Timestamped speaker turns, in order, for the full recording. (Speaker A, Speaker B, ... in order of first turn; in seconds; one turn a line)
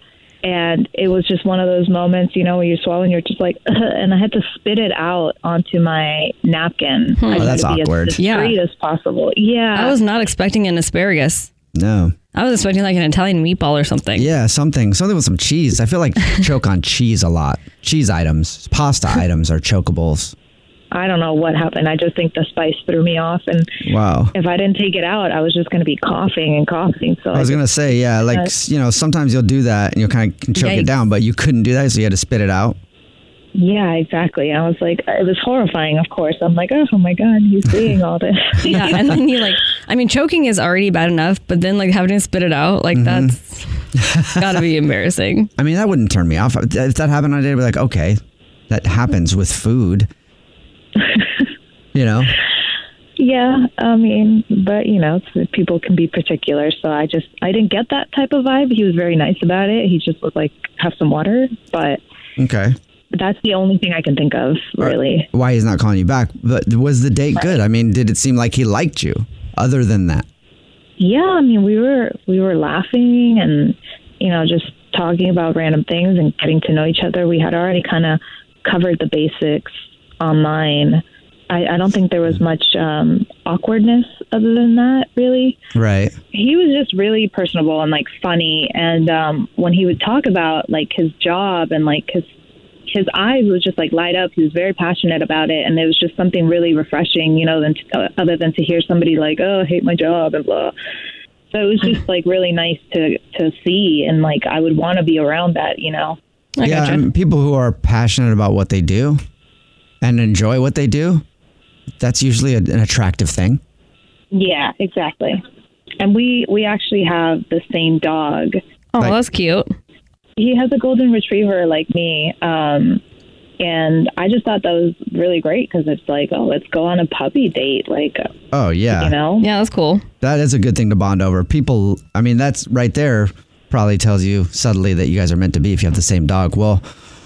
Speaker A: 0.4-9.9
Speaker B: 7.2-7.6
Speaker C: 7.3-8.2
Speaker B: 8.2-8.6
Speaker B: 9.7-11.5
Speaker C: 11.7-12.2
Speaker B: 12.3-14.3
Speaker C: 14.2-20.3
Speaker A: 20.9-23.7
Speaker C: 23.8-24.3
Speaker A: 24.3-27.6
Speaker C: 27.3-32.8
Speaker B: 30.6-30.9
Speaker A: 33.5-39.1
Speaker B: 38.6-43.7
Speaker C: 42.9-43.4
Speaker C: 44.0-44.6
Speaker B: 44.4-45.5
Speaker C: 45.6-50.1
Speaker A: 51.0-51.3
Speaker C: 51.9-52.3
Speaker A: 53.2-62.0
Speaker C: 62.4-62.8
Speaker A: 63.1-65.3
Speaker C: 64.8-70.2
Speaker A: 71.0-85.6
Speaker C: 85.7-86.2
Speaker A: 86.3-92.3
Speaker A: 92.9-100.7
Speaker A: 101.5-106.2
Speaker B: 106.5-107.0
Speaker C: 106.6-109.2
Speaker C: 110.0-111.2
Speaker C: 112.0-113.6
Speaker A: 114.3-115.4
Speaker A: 116.0-118.6
Speaker B: 118.9-119.7
Speaker A: 120.4-123.0
Speaker A: 123.6-128.3
Speaker C: 128.5-129.2
Speaker A: 128.9-129.4
Speaker B: 129.4-130.0
Speaker C: 130.2-136.8